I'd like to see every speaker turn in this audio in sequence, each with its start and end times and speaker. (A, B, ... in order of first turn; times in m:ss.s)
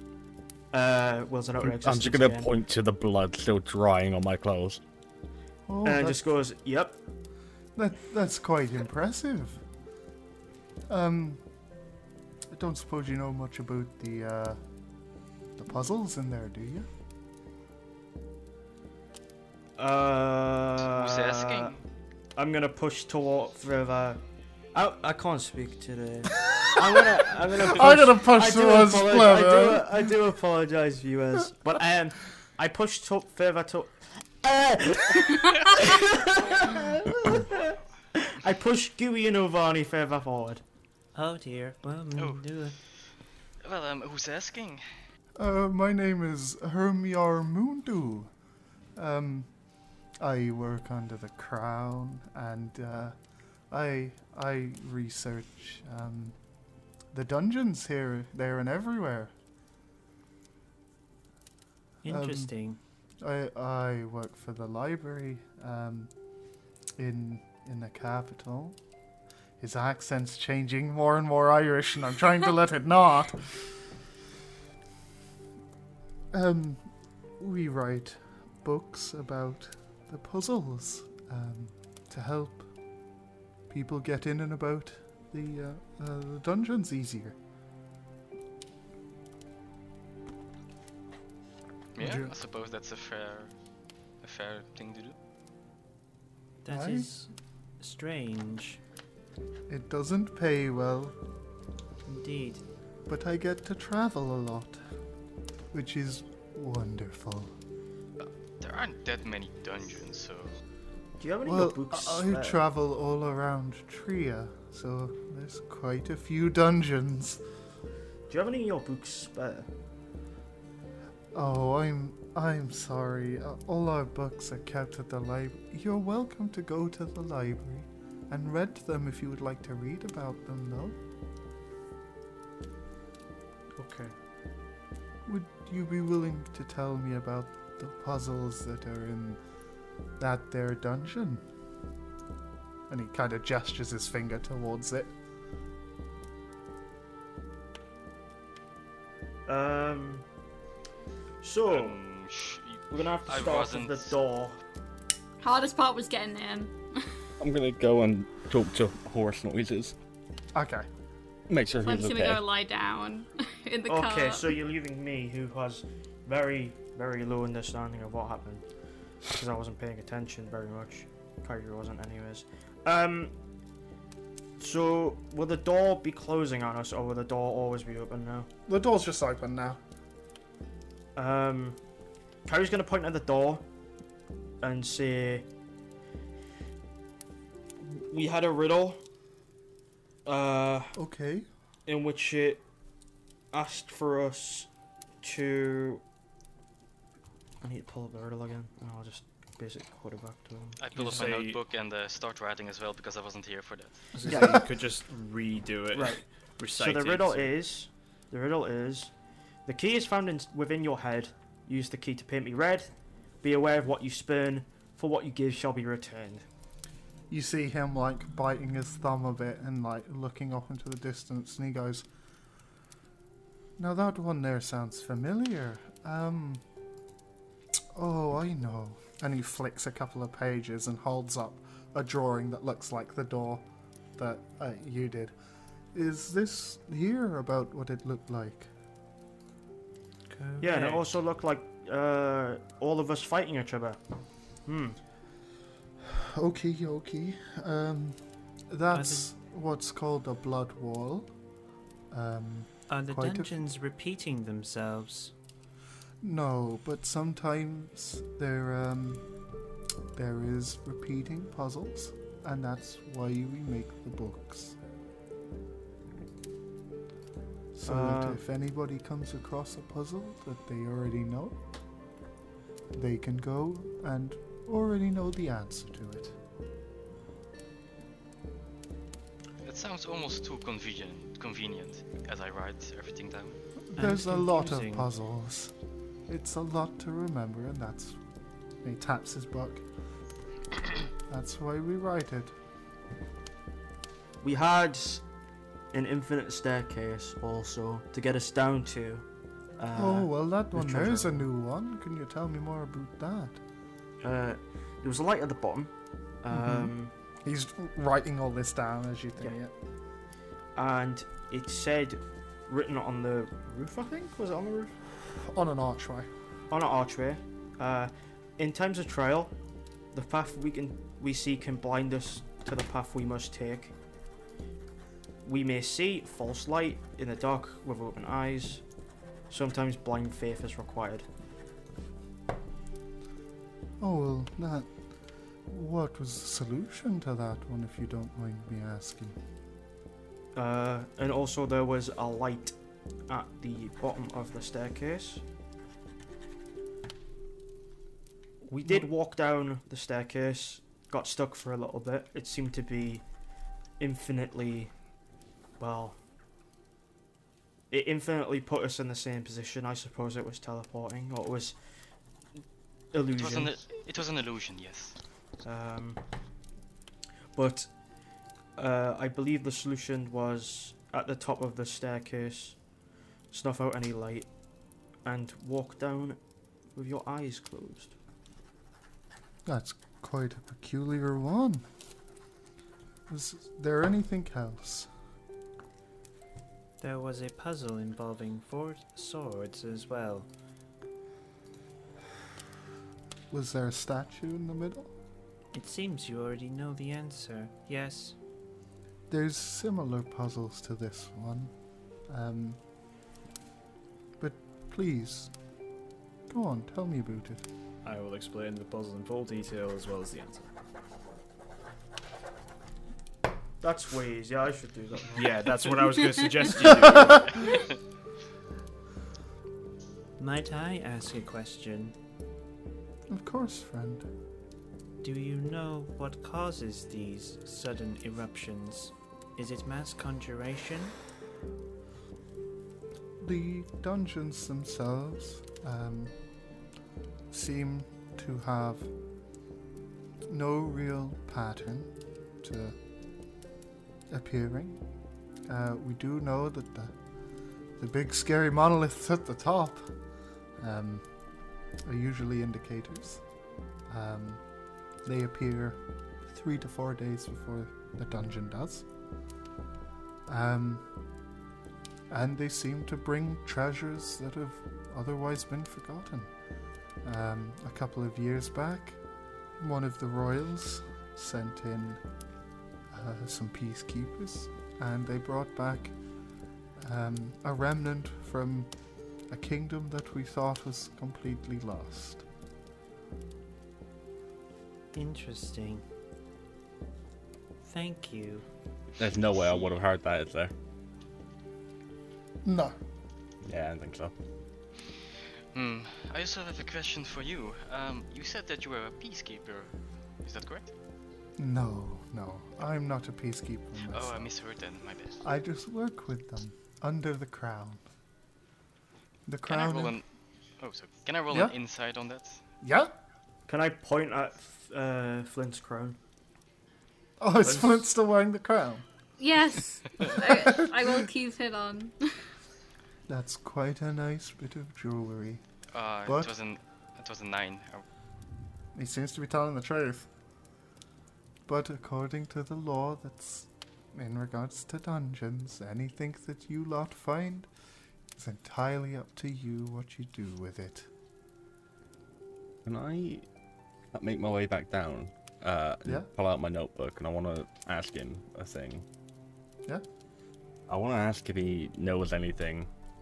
0:00.7-0:02.5 A
0:01.6-0:04.8 B
0:05.7-0:06.2 C
0:05.8-0:07.0 A
0:07.8-0:09.6 C
0:10.9-0:11.4 C
0:12.5-0:14.6 C
0:15.6-0:16.9 C
0:19.8-0:21.8 A
0:20.9-0:21.8 D
0:22.4-0:24.2 A
0:24.7-0:40.6 A
0:27.6-0:30.0 C
0:41.1-0:42.8 E
0:42.2-0:42.4 D
0:43.6-0:44.8 D
0:45.4-0:48.3 C
0:49.0-0:49.5 C
0:50.2-0:53.2 C
0:53.7-0:56.4 C
0:57.1-0:59.3 C
1:02.0-1:02.8 E
1:02.1-1:02.5 C
1:03.2-1:06.1 C
1:07.0-1:08.8 C
1:09.6-1:13.6 C
1:16.3-1:16.9 C
1:17.4-1:22.7 C
1:23.7-1:27.4 C
1:31.9-1:33.5 D
1:32.0-1:32.3 C
1:34.2-1:35.1 D
1:36.6-1:38.8 E
1:36.7-1:37.1 C
1:39.7-1:41.2 C
1:42.0-1:42.6 E
1:43.1-1:44.8 C
1:45.7-1:47.5 C
1:48.2-1:50.6 D
1:51.2-1:52.6 A
1:51.4-1:57.4 C
1:58.3-1:59.7 A
2:01.3-2:11.0 C
2:13.8-2:14.1 A
2:15.2-2:19.4 C
2:20.2-2:21.4 C
2:22.9-2:25.1 C
2:29.5-2:30.2 A
2:31.4-2:32.0 A
2:31.7-2:34.2 D
2:32.9-2:34.6 A
2:35.4-2:36.8 F
2:37.4-2:39.9 B
2:40.5-2:40.8 C
2:41.5-2:42.4 B
2:41.8-2:44.5 F
2:43.8-2:48.6 A
2:49.3-2:53.3 A
2:54.6-2:58.5 A
2:58.7-2:59.8 C
3:01.2-3:01.8 A
3:02.4-3:03.6 A
3:04.6-3:05.4 A
3:07.8-3:09.0 A
3:10.2-3:11.0 A
3:11.0-3:11.5 C
3:11.8-3:12.6 A
3:13.5-3:14.7 A
3:15.2-3:16.0 A
3:17.6-3:20.8 A
3:20.8-3:24.1 D
3:20.9-3:21.6 G
3:24.1-3:27.5 G
3:24.2-3:24.7 A
3:25.9-3:29.1 A
3:29.6-3:36.4 A
3:37.3-3:42.0 C
3:43.8-3:46.6 C
3:47.9-3:53.6 C
3:54.2-3:55.3 C
3:55.9-3:58.7 C
4:00.3-4:01.0 E
4:00.6-4:04.0 A
4:04.6-4:05.0 A
4:06.0-4:08.2 C
4:08.7-4:11.3 C
4:08.9-4:09.3 E
4:12.1-4:13.6 C
4:12.9-4:15.3 E
4:16.2-4:19.2 C
4:20.1-4:24.8 C
4:27.7-4:31.6 C
4:27.8-4:28.4 A
4:32.9-4:36.4 C
4:39.6-4:43.6 D
4:43.9-4:45.7 C
4:44.0-4:45.1 E
4:46.3-4:48.2 C
4:48.8-4:49.8 C
4:51.3-4:52.5 C
4:54.4-4:55.2 A
4:55.9-4:59.2 A
4:59.8-5:01.5 A
5:00.0-5:03.6 C
5:04.2-5:05.9 A
5:06.4-5:07.1 A
5:06.5-5:06.9 C
5:07.4-5:09.7 C
5:10.7-5:15.0 A
5:15.4-5:16.3 C
5:16.7-5:19.5 A
5:20.1-5:23.9 A
5:25.4-5:28.8 A
5:29.5-5:31.3 A
5:34.0-5:34.9 C
5:35.7-5:39.4 C
5:40.5-5:42.8 A
5:43.3-5:45.4 A
5:48.6-5:53.2 A
5:54.0-5:54.9 A
5:55.8-5:56.2 A
5:57.9-6:01.8 A
6:03.1-6:03.8 A
6:03.4-6:05.2 D
6:05.6-6:06.2 A
6:07.5-6:07.9 A
6:08.8-6:12.8 A
6:13.5-6:14.5 A
6:15.2-6:16.4 A
6:16.9-6:18.1 A
6:19.6-6:21.8 C
6:23.3-6:25.1 C
6:27.0-6:30.5 E
6:33.5-6:35.1 C
6:35.7-6:38.4 E
6:39.3-6:41.7 C
6:42.3-6:42.8 C
6:44.4-6:45.5 C
6:46.5-6:47.6 C
6:48.0-6:50.7 G
6:53.8-6:55.7 A
6:55.4-6:57.7 G
7:00.4-7:02.1 E
7:03.3-7:04.2 C
7:05.2-7:11.2 E
7:13.4-7:16.3 C
7:17.5-7:19.1 C
7:20.5-7:22.1 C
7:22.6-7:23.0 C
7:24.3-7:25.0 C
7:25.7-7:27.1 C
7:28.0-7:30.1 C
7:30.8-7:31.2 C
7:32.0-7:33.4 C
7:34.1-7:34.6 C
7:35.2-7:39.0 C
7:40.5-7:41.0 C
7:42.3-7:46.5 C
7:47.2-7:49.2 C
7:49.8-7:52.2 C
7:53.1-7:56.1 C
7:57.0-7:58.9 C
7:59.5-8:02.4 C
8:05.1-8:06.0 E
8:07.8-8:08.6 E
8:09.2-8:10.7 B
8:12.6-8:13.0 C
8:13.6-8:14.3 B
8:15.7-8:20.9 D
8:21.6-8:24.5 C
8:24.1-8:25.4 D
8:25.4-8:28.0 C
8:29.5-8:30.2 C
8:29.7-8:30.2 D
8:30.8-8:32.6 D
8:32.8-8:33.1 C
8:33.7-8:36.2 A
8:37.4-8:39.0 C
8:39.4-8:42.1 F
8:40.5-8:41.1 C
8:43.3-8:45.6 C
8:45.9-8:48.0 D
8:46.2-8:46.5 C
8:48.9-8:50.3 C
8:51.7-8:57.7 C
8:58.4-9:01.1 C
9:02.8-9:03.4 B
9:04.1-9:09.0 B
9:06.0-9:06.3 C
9:10.9-9:12.9 B